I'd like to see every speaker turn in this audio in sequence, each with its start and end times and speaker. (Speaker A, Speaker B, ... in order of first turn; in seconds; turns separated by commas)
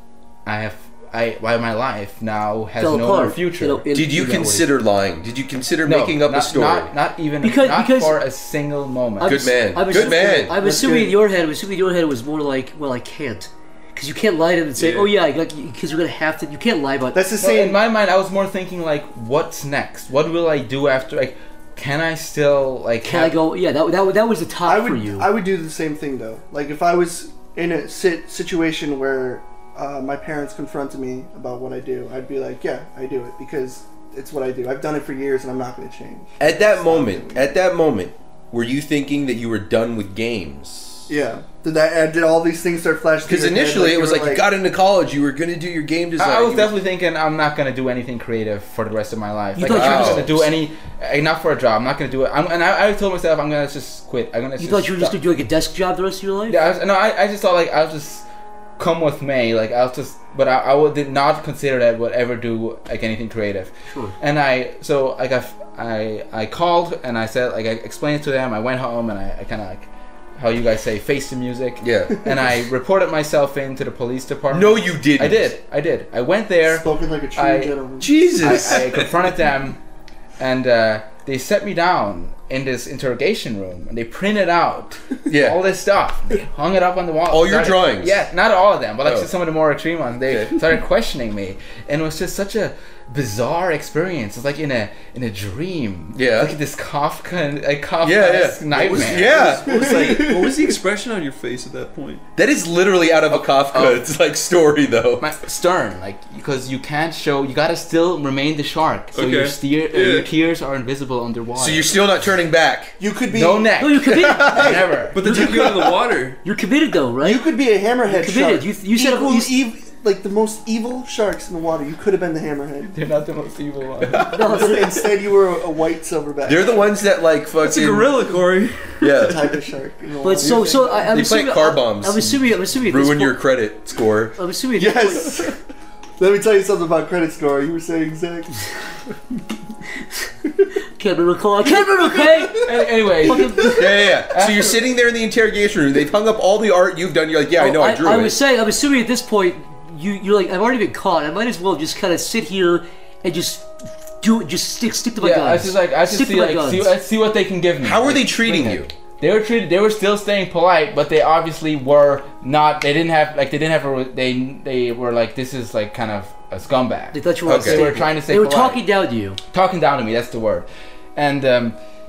Speaker A: 0.4-3.8, Speaker B: 2.8-4.7, Speaker C: 3.9-6.9, Speaker A: 5.8-9.5, Speaker B: 7.4-8.2, Speaker B: 9.2-17.2, Speaker C: 9.2-10.6, Speaker D: 9.9-11.1, Speaker E: 14.8-15.1, Speaker D: 17.1-17.8, Speaker A: 17.4-23.4, Speaker B: 23.0-25.3, Speaker D: 24.6-37.5, Speaker C: 36.4-41.1, Speaker D: 41.1-44.5, Speaker C: 43.2-46.7, Speaker A: 46.2-55.1, Speaker B: 49.5-50.4, Speaker C: 49.7-50.4, Speaker B: 54.6-56.6, Speaker A: 56.5-58.2, Speaker A: 58.8-77.8, Speaker B: 63.9-64.2, Speaker C: 71.8-72.2, Speaker C: 74.5-75.5, Speaker D: 76.7-78.7, Speaker C: 78.0-79.1, Speaker A: 78.4-79.8, Speaker A: 80.4-99.5, Speaker C: 85.3-85.6, Speaker C: 87.3-88.2, Speaker C: 90.3-90.6, Speaker C: 96.1-96.5, Speaker C: 98.0-100.7, Speaker E: 98.8-102.2, Speaker D: 99.3-100.7, Speaker C: 102.3-105.3, Speaker A: 103.3-104.0, Speaker A: 105.2-112.0, Speaker E: 109.1-110.3, Speaker C: 111.5-113.0, Speaker D: 113.0-113.8, Speaker A: 113.3-115.4, Speaker B: 113.8-114.5, Speaker C: 114.1-114.8, Speaker D: 114.5-115.7, Speaker E: 115.1-116.4, Speaker C: 115.4-115.8, Speaker B: 116.4-117.4, Speaker D: 117.2-123.0, Speaker B: 118.1-119.5, Speaker A: 122.9-124.5, Speaker C: 124.1-124.3, Speaker B: 124.3-124.9, Speaker D: 124.3-126.9, Speaker C: 126.4-128.1, Speaker E: 127.6-129.3, Speaker C: 129.0-129.4, Speaker D: 129.1-131.1, Speaker B: 130.2-133.4, Speaker C: 131.1-134.3, Speaker B: 134.4-135.3, Speaker D: 134.8-135.6, Speaker D: 136.2-138.7, Speaker B: 141.0-143.8, Speaker D: 141.6-142.8, Speaker A: 142.5-144.7, Speaker C: 143.8-148.3, Speaker B: 147.6-156.9, Speaker A: 155.2-168.8, Speaker C: 157.8-158.9, Speaker B: 167.1-169.4, Speaker C: 167.4-167.9, Speaker A: 169.5-171.8